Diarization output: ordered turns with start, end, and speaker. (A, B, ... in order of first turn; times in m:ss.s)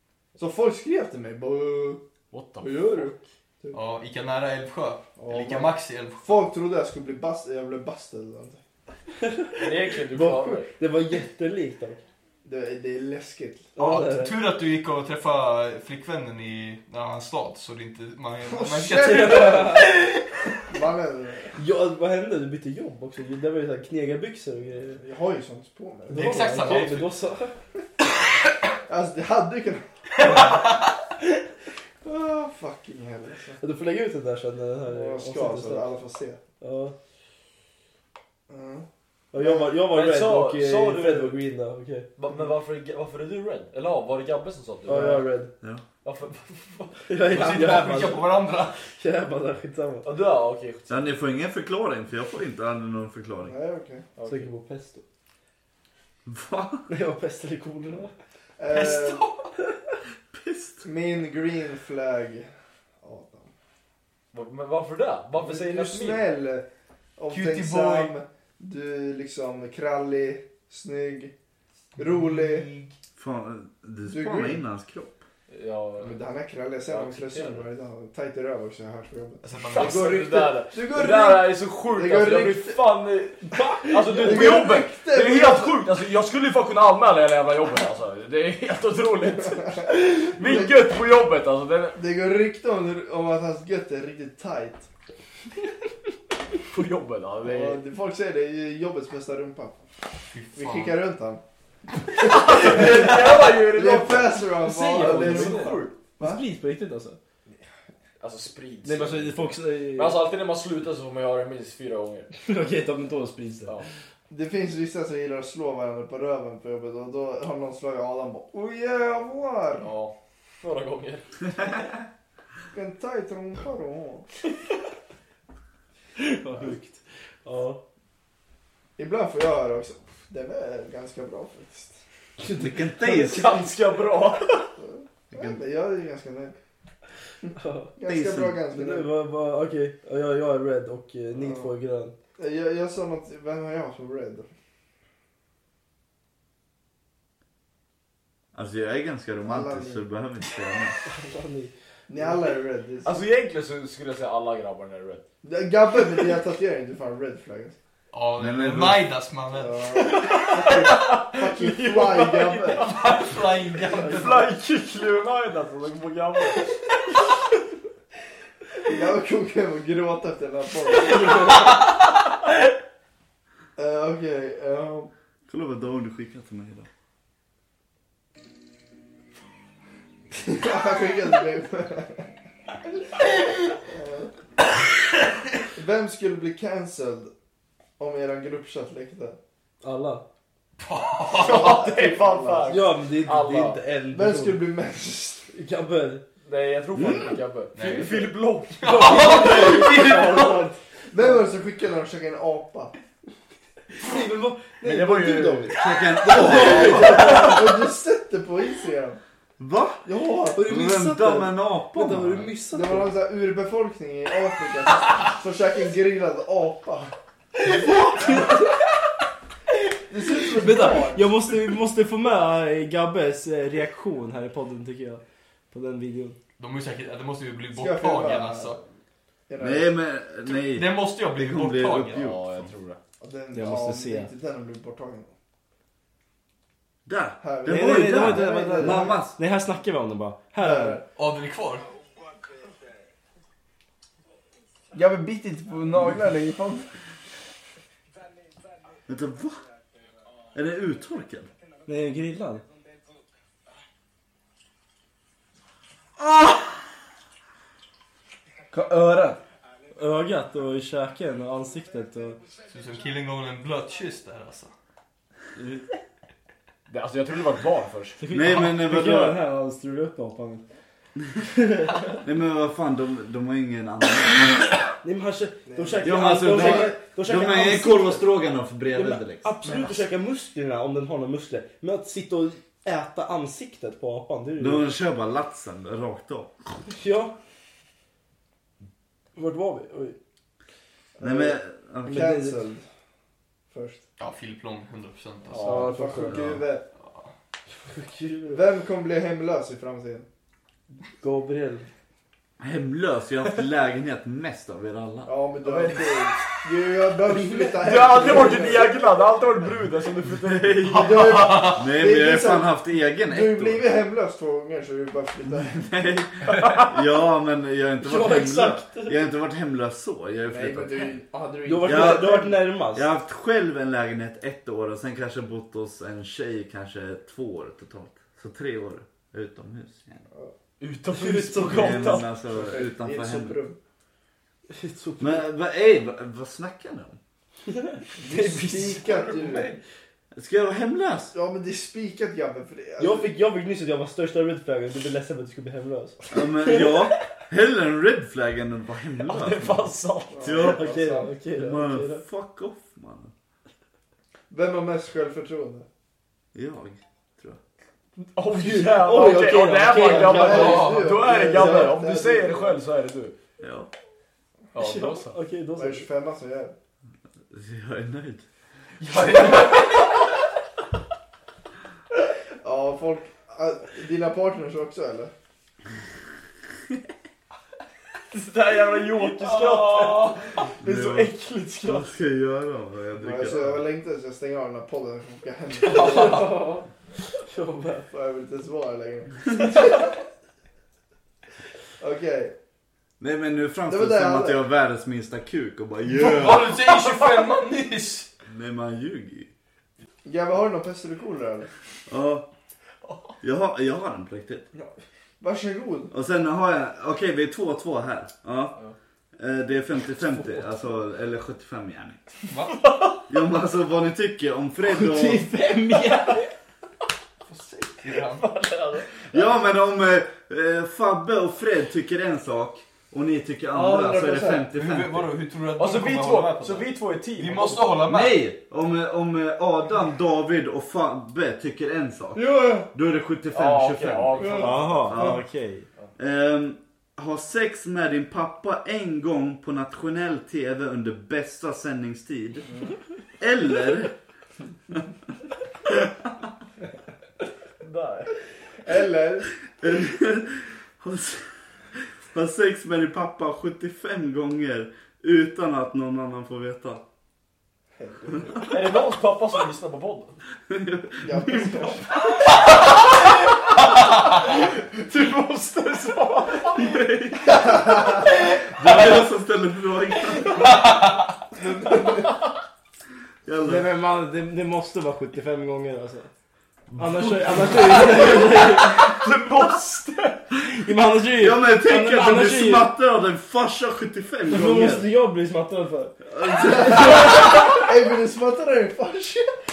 0:00.4-0:02.0 A
0:02.3-0:03.2 B
0:02.6-0:03.8 A
0:03.7-0:06.4 C
0:05.2-0:08.6 A
0:09.2-0:12.0 D
0:09.6-0:10.7 B
0:12.4-0:13.8 A
0:13.8-0:14.4 D
0:13.8-0:20.6 C
0:18.4-0:20.0 A
0:18.9-0:20.0 D
0:20.7-0:21.6 A
0:21.6-0:25.0 D
0:25.0-0:26.9 A
0:26.1-0:27.6 D
0:26.1-0:27.1 C
0:28.9-0:30.6 A
0:30.2-0:30.9 C
0:32.0-0:33.6 A
0:33.6-0:35.9 D
0:34.9-0:36.4 A
0:36.6-0:37.0 D
0:38.5-0:39.7 A
0:39.3-0:42.1 D
0:39.9-0:41.4 B
0:42.2-0:45.3 B
0:44.9-0:45.5 D
0:46.0-0:47.6 B
0:47.1-0:50.1 D
0:47.2-0:48.8 C
0:50.0-0:51.1 B
0:50.9-0:53.6 E
0:53.4-0:54.1 A
0:54.2-0:54.5 B
0:54.2-0:55.0 D
0:56.3-0:56.9 E
0:56.9-0:58.1 D
0:58.6-0:59.2 A
0:58.7-0:59.5 C
1:00.3-1:00.9 E
1:00.8-1:02.5 A
1:03.0-1:03.5 A
1:04.3-1:06.3 B
1:05.4-1:06.7 A
1:07.2-1:11.3 A
1:07.3-1:08.1 C
1:12.0-1:12.7 A
1:12.0-1:12.9 C
1:13.2-1:15.2 E
1:14.1-1:14.6 A
1:15.5-1:16.2 B
1:16.0-1:22.8 A
1:16.9-1:17.7 B
1:19.4-1:20.2 C
1:19.7-1:32.0 B
1:23.4-1:24.7 D
1:24.1-1:25.9 A
1:29.4-1:30.8 A
1:32.0-1:34.9 A
1:36.7-1:37.8 B
1:37.4-1:39.8 A
1:40.3-1:41.0 C
1:40.5-1:41.4 A
1:42.2-1:46.4 A
1:42.2-1:45.9 B
1:42.6-1:43.4 C
1:44.6-1:47.2 D
1:48.2-1:52.3 B
1:48.8-1:50.2 D
1:52.4-1:53.8 D
1:54.3-1:59.9 A
1:59.8-2:01.3 B
2:02.7-2:04.3 A
2:06.2-2:07.8 D
2:09.0-2:12.0 A
2:12.4-2:13.0 D
2:12.6-2:13.6 E
2:13.0-2:14.7 B
2:14.8-2:16.6 A
2:15.3-2:15.6 E
2:17.4-2:19.1 A
2:17.6-2:18.0 D
2:18.0-2:18.6 E
2:18.7-2:22.1 D
2:21.4-2:21.7 A
2:22.4-2:24.5 A
2:28.5-2:31.0 E
2:29.4-2:30.1 A
2:31.1-2:31.7 D
2:32.1-2:33.2 A
2:33.0-2:35.2 B
2:35.4-2:37.8 A
2:38.1-2:40.7 C
2:38.4-2:39.0 E
2:39.5-2:42.9 A
2:40.2-2:43.0 B
2:42.8-2:44.5 C
2:43.9-2:46.7 B
2:44.0-2:44.3 A
2:48.8-2:51.8 A
2:51.0-2:51.9 C
2:53.8-2:55.1 A
2:55.5-2:56.9 E
3:00.4-3:02.3 A
3:03.8-3:04.3 A
3:05.7-3:07.3 A
3:08.0-3:09.4 A
3:09.8-3:10.2 D
3:10.8-3:11.8 C
3:11.3-3:12.8 A
3:11.3-3:13.8 B
3:12.7-3:14.6 D
3:14.1-3:15.5 A
3:15.5-3:16.2 D
3:16.4-3:19.6 B
3:16.9-3:17.4 E
3:17.7-3:20.7 C
3:18.8-3:21.4 D
3:21.1-3:22.9 A
3:24.0-3:25.8 D
3:24.8-3:25.8 B
3:25.8-3:27.6 E
3:26.4-3:29.2 A
3:26.6-3:27.1 D
3:29.6-3:30.1 E
3:30.0-3:30.6 A
3:30.5-3:33.1 D
3:30.6-3:32.5 E
3:32.7-3:37.2 A
3:38.1-3:38.5 D
3:38.2-3:38.5 A
3:40.1-3:41.3 A
3:40.6-3:46.4 D
3:46.6-3:48.8 C
3:47.7-3:48.8 A
3:49.5-3:49.9 A
3:49.6-3:52.7 E
3:50.4-3:52.3 C
3:52.1-3:53.0 B
3:53.2-3:55.3 A
3:53.5-3:54.3 D
3:57.1-3:59.4 E
3:57.4-3:59.2 A
3:57.6-4:01.0 D
4:00.6-4:01.1 A
4:01.2-4:01.9 C
4:04.9-4:06.9 A
4:09.1-4:09.6 E
4:10.5-4:11.5 E
4:11.9-4:12.6 D
4:18.7-4:19.4 A
4:19.9-4:22.4 D
4:22.7-4:24.7 C
4:26.9-4:28.2 B
4:28.2-4:30.6 D
4:28.3-4:29.4 E
4:31.5-4:32.0 D
4:32.2-4:34.8 E
4:35.0-4:38.3 D
4:35.7-4:36.9 A
4:36.0-4:39.6 E
4:38.9-4:44.9 D
4:39.6-4:39.9 A
4:44.6-4:46.5 E
4:46.9-4:47.4 D
4:49.4-4:50.2 D
4:51.2-4:52.8 A
4:51.2-4:52.4 E
4:52.1-4:52.6 D
4:53.7-4:54.0 A
4:54.2-4:55.8 C
4:55.5-4:56.0 B
4:55.6-4:56.6 D
4:55.7-4:56.9 A
4:57.0-4:57.3 C
4:57.8-4:58.6 D
4:58.5-5:00.3 A
5:01.2-5:01.9 D
5:02.6-5:05.3 E
5:05.2-5:09.0 A
5:05.6-5:06.4 B
5:07.2-5:09.0 D
5:07.8-5:11.2 B
5:10.4-5:11.0 E
5:10.9-5:15.9 A
5:10.9-5:11.8 C
5:11.6-5:13.8 E
5:15.6-5:21.2 E
5:16.5-5:16.9 B
5:18.0-5:19.2 D
5:20.5-5:22.6 A
5:21.6-5:23.1 D
5:21.8-5:30.3 E
5:30.8-5:32.3 B
5:31.1-5:32.3 D
5:31.6-5:33.6 E
5:32.5-5:33.8 A
5:34.7-5:35.4 D
5:35.2-5:37.2 E
5:37.7-5:38.4 D
5:38.2-5:39.8 A
5:39.0-5:39.7 C
5:40.3-5:41.3 E
5:41.3-5:43.3 A
5:43.0-5:47.1 D
5:46.3-5:49.9 E
5:49.2-5:50.5 B
5:50.3-5:51.3 A
5:50.4-5:50.9 E
5:50.6-5:52.2 D
5:51.6-5:53.3 E
5:54.5-5:55.9 A
5:56.5-5:57.6 E
5:58.2-6:03.4 B
5:58.5-6:02.0 D
6:00.0-6:02.8 A
6:00.5-6:01.1 C
6:03.6-6:03.9 E
6:04.7-6:05.4 B
6:04.8-6:06.1 D
6:05.8-6:06.8 A
6:07.5-6:08.4 E
6:09.0-6:10.2 C
6:09.1-6:10.0 B
6:12.6-6:15.3 A
6:18.3-6:22.1 B
6:19.5-6:20.4 C
6:20.8-6:23.9 E
6:23.2-6:26.8 A
6:25.9-6:26.8 D
6:25.9-6:26.3 B
6:27.4-6:28.1 D
6:28.1-6:30.1 A
6:32.0-6:32.5 A
6:33.2-6:36.8 E
6:33.9-6:34.6 A
6:36.1-6:38.3 C
6:37.1-6:37.6 B
6:38.5-6:39.5 E
6:40.2-6:41.7 A
6:42.1-6:42.5 E
6:43.4-6:44.7 E
6:44.7-6:46.1 A
6:46.1-6:48.8 E
6:49.4-6:52.2 E
6:52.5-6:52.8 C
6:52.7-6:53.2 B
6:53.3-6:55.5 E
6:54.8-6:56.5 D
6:57.5-6:58.5 C
6:58.1-6:59.5 B
6:59.3-7:05.3 E
7:03.7-7:04.7 A
7:04.7-7:08.4 C
7:05.8-7:08.0 B
7:08.1-7:15.4 E
7:12.4-7:12.9 D
7:13.5-7:15.2 B
7:14.4-7:15.2 A
7:14.6-7:15.9 D
7:16.2-7:22.7 E
7:23.4-7:24.1 E
7:25.8-7:26.3 E
7:27.8-7:28.4 B
7:28.8-7:29.5 A
7:29.8-7:37.0 E
7:38.0-7:38.8 A
7:38.6-7:40.4 B
7:40.7-7:42.4 E
7:41.2-7:42.2 A
7:42.6-7:46.9 B
7:43.9-7:44.5 C
7:46.8-7:50.8 E
7:48.8-7:49.1 C
7:50.3-7:50.6 B
7:50.6-7:51.4 C
7:51.6-7:52.4 A
7:51.6-7:52.4 B
7:53.5-7:53.9 E
7:53.6-7:56.3 D
7:56.9-7:58.2 E
7:57.0-7:59.2 D
7:57.9-8:00.4 B
8:00.6-8:02.9 D
8:01.4-8:05.1 E
8:04.5-8:06.2 D
8:06.3-8:07.6 E
8:06.4-8:09.5 A